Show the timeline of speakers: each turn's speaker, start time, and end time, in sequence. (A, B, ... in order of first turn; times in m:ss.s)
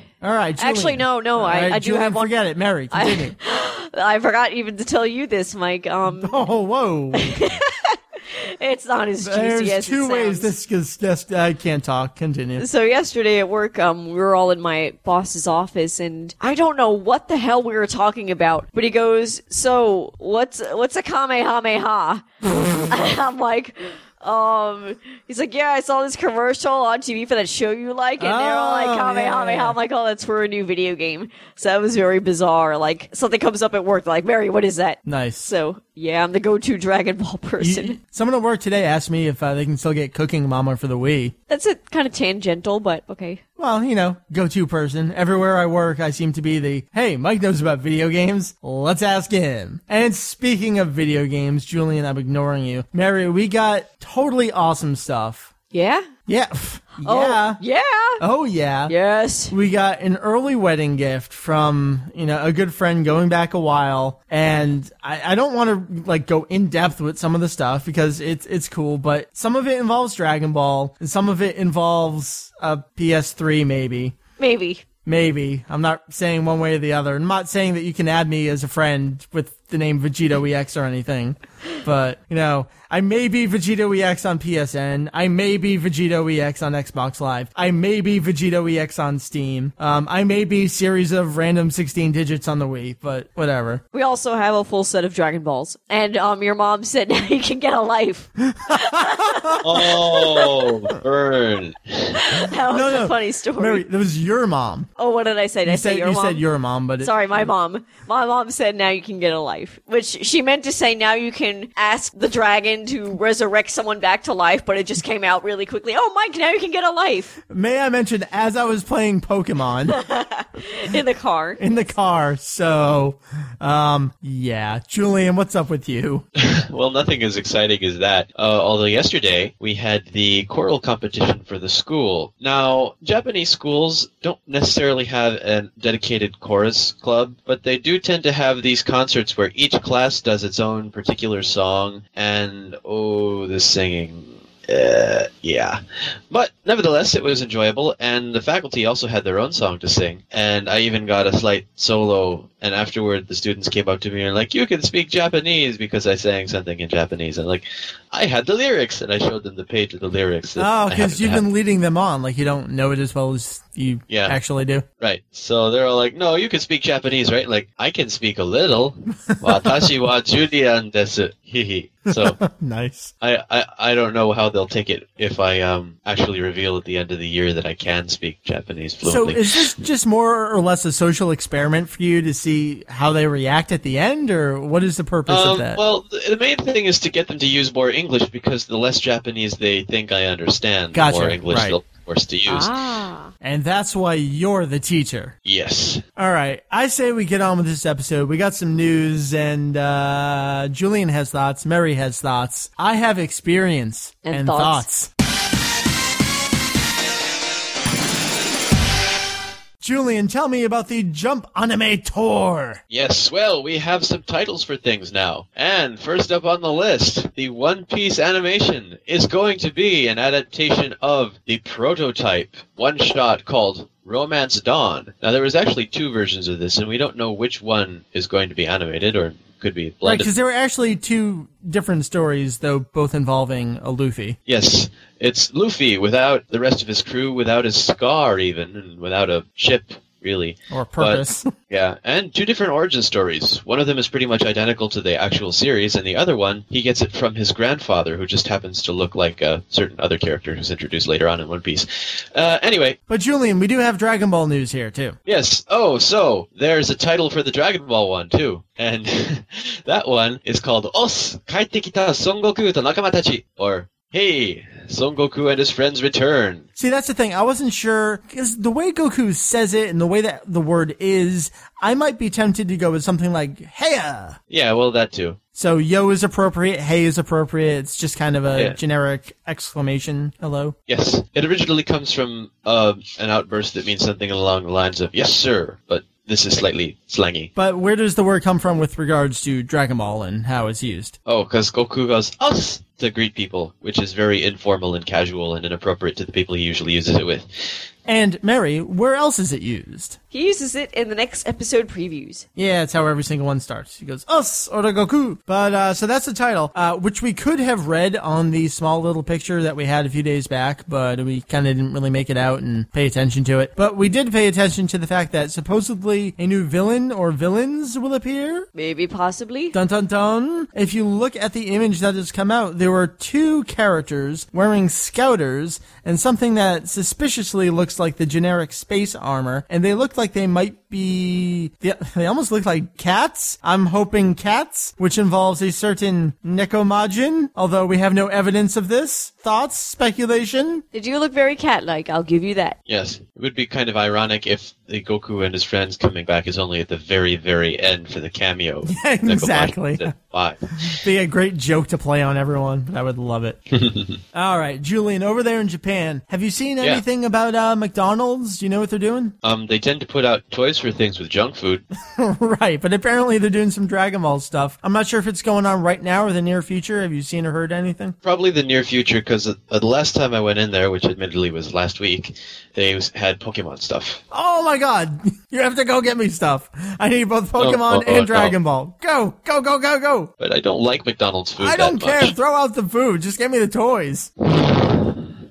0:00.2-0:03.4 A
0:00.6-0:02.4 B
0:02.9-0:06.4 B
0:06.1-0:07.4 A
0:07.2-0:10.5 B
0:09.2-0:12.7 A
0:12.6-0:22.2 B
0:22.9-0:38.0 B
0:28.2-0:29.8 A
0:35.1-0:35.5 A
0:37.6-0:41.3 A
0:41.5-0:43.4 B
0:43.6-0:55.5 A
0:55.7-0:56.1 B
0:56.3-0:57.6 A
0:57.0-0:58.2 B
0:58.2-0:58.9 A
0:58.9-0:59.5 B
0:59.5-1:14.2 A
1:14.4-1:14.8 B
1:15.0-1:33.8 A
1:33.9-1:40.5 B
1:38.4-1:39.6 A
1:39.6-1:42.3 C
1:42.2-1:43.8 B
1:42.7-1:44.9 A
1:45.0-1:46.4 B
1:45.6-1:47.5 A
1:47.0-1:57.4 B
1:57.5-2:00.0 A
1:59.9-2:01.6 B
2:01.6-2:06.2 A
2:06.4-2:41.5 C
2:40.6-2:44.8 A
2:44.1-2:44.4 C
2:45.0-2:52.4 C
2:52.1-2:53.1 A
2:53.2-2:59.7 C
2:59.0-3:05.8 A
3:05.3-3:12.7 C
3:10.9-3:11.8 A
3:12.5-3:13.3 B
3:13.4-3:15.4 A
3:15.4-3:16.0 C
3:16.2-3:25.1 A
3:24.2-3:24.9 B
3:29.8-3:32.8 A
3:32.9-3:50.3 C
3:50.0-3:54.4 A
3:54.5-4:13.0 C
4:00.7-4:01.5 A
4:13.1-4:15.2 A
4:15.3-4:26.6 C
4:26.8-4:34.4 A
4:34.5-4:35.4 C
4:35.6-4:40.8 A
4:40.9-4:47.5 C
4:47.6-4:51.2 A
4:51.3-4:57.8 C
4:58.1-5:00.2 A
5:00.3-5:02.4 B
5:02.6-5:18.7 A
5:18.8-5:19.8 B
5:19.7-5:40.8 A
5:40.9-5:42.8 B
5:42.9-5:51.0 C
5:48.9-5:50.1 A
5:50.9-5:53.6 A
5:53.7-5:54.2 C
5:54.3-5:59.4 A
5:59.4-6:01.8 C
6:02.2-6:08.2 A
6:08.2-6:14.2 C
6:14.3-6:20.3 A
6:17.6-6:18.6 C
6:20.4-6:22.3 C
6:21.6-6:24.7 A
6:24.6-6:25.3 C